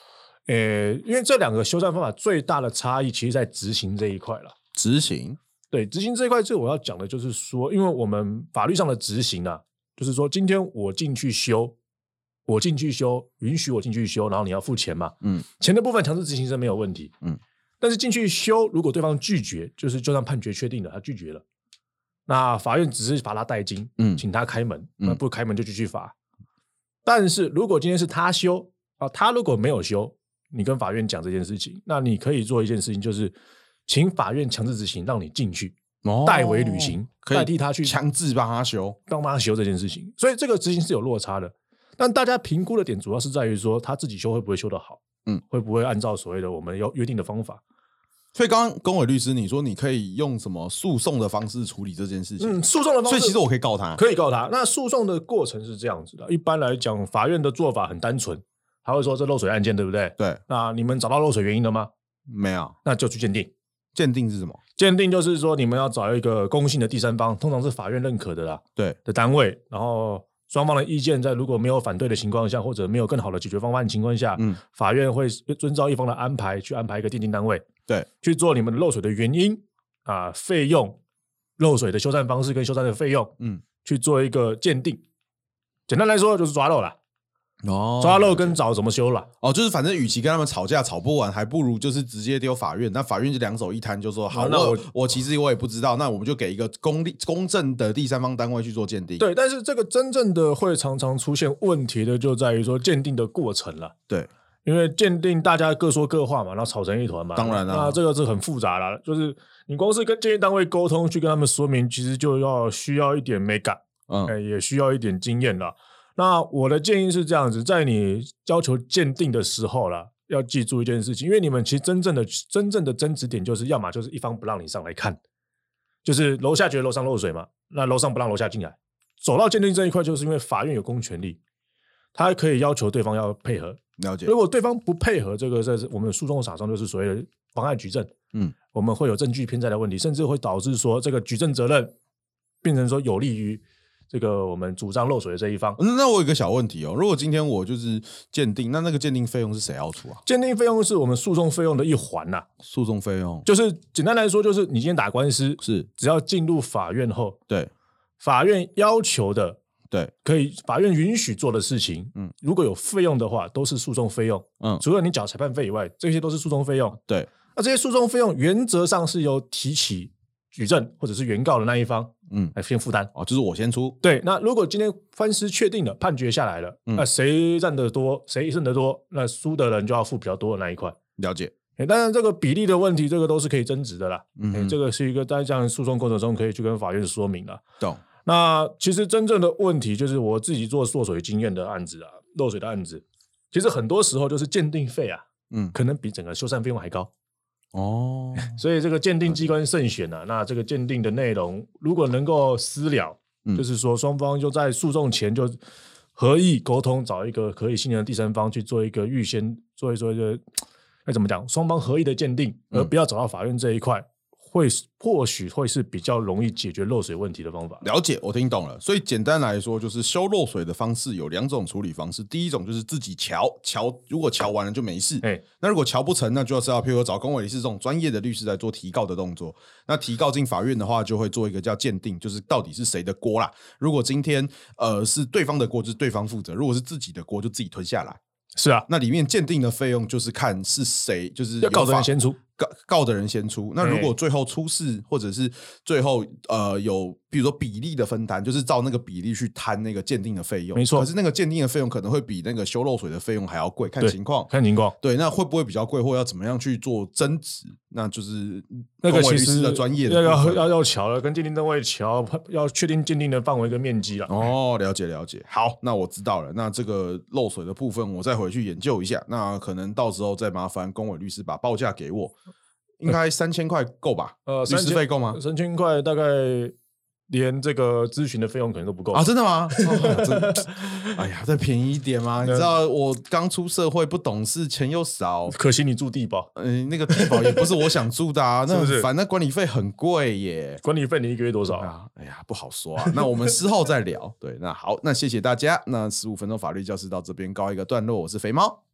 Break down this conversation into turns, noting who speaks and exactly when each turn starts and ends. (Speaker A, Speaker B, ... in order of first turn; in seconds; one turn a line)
Speaker A: 0.5-4.5
Speaker B: 4.8-5.4
Speaker A: 5.7-11.8
Speaker A: 12.5-17.1
Speaker A: 17.8-21.4
Speaker A: 22.3-26.1
Speaker A: 27.0-33.4
Speaker A: 33.9-38.0
Speaker B: 36.0-39.0
Speaker A: 39.1-47.6
Speaker B: 48.3-54.0
Speaker A: 52.4-53.4
Speaker A: 53.9-61.9
Speaker B: 62.3-62.7
Speaker A: 62.8-63.5
Speaker B: 63.9-64.6
Speaker A: 64.8-77.7
Speaker A: 78.2-81.0
Speaker A: 81.6-85.0
Speaker A: 85.9-87.0
Speaker B: 87.6-88.6
Speaker A: 88.0-89.3
Speaker B: 89.4-99.2
Speaker A: 94.3-94.8
Speaker A: 99.2-103.9
Speaker A: 104.6-125.2
Speaker B: 107.3-108.0
Speaker B: 114.1-114.3
Speaker A: 126.0-131.4
Speaker A: 132.1-138.1
Speaker B: 134.0-134.3
Speaker A: 138.7-141.9
Speaker A: 142.6-145.8
Speaker B: 145.8-150.2
Speaker A: 150.2-152.5
Speaker B: 152.6-153.4
Speaker A: 153.4-157.4
Speaker B: 155.6-155.9
Speaker A: 158.2-159.6
Speaker A: 160.2-167.0
Speaker A: 167.5-173.1
Speaker B: 173.1-174.0
Speaker A: 174.0-180.9
Speaker B: 181.2-181.5
Speaker A: 181.8-187.6
Speaker B: 184.4-184.8
Speaker A: 188.2-197.1
Speaker B: 197.7-198.6
Speaker A: 198.4-205.6
Speaker A: 206.2-210.4
Speaker A: 211.1-217.8
Speaker B: 217.8-238.2
Speaker A: 238.6-238.9
Speaker B: 238.9-254.5
Speaker A: 241.6-242.4
Speaker A: 243.8-244.1
Speaker A: 250.7-251.1
Speaker A: 254.0-254.9
Speaker B: 255.0-260.7
Speaker A: 259.0-264.5
Speaker B: 264.3-272.3
Speaker B: 273.0-275.4
Speaker A: 274.4-276.7
Speaker A: 277.3-281.1
Speaker B: 279.1-285.6
Speaker A: 282.4-282.7
Speaker A: 285.5-286.5
Speaker B: 286.6-290.8
Speaker A: 287.1-287.6
Speaker A: 288.7-289.1
Speaker A: 290.8-291.9
Speaker B: 291.7-298.8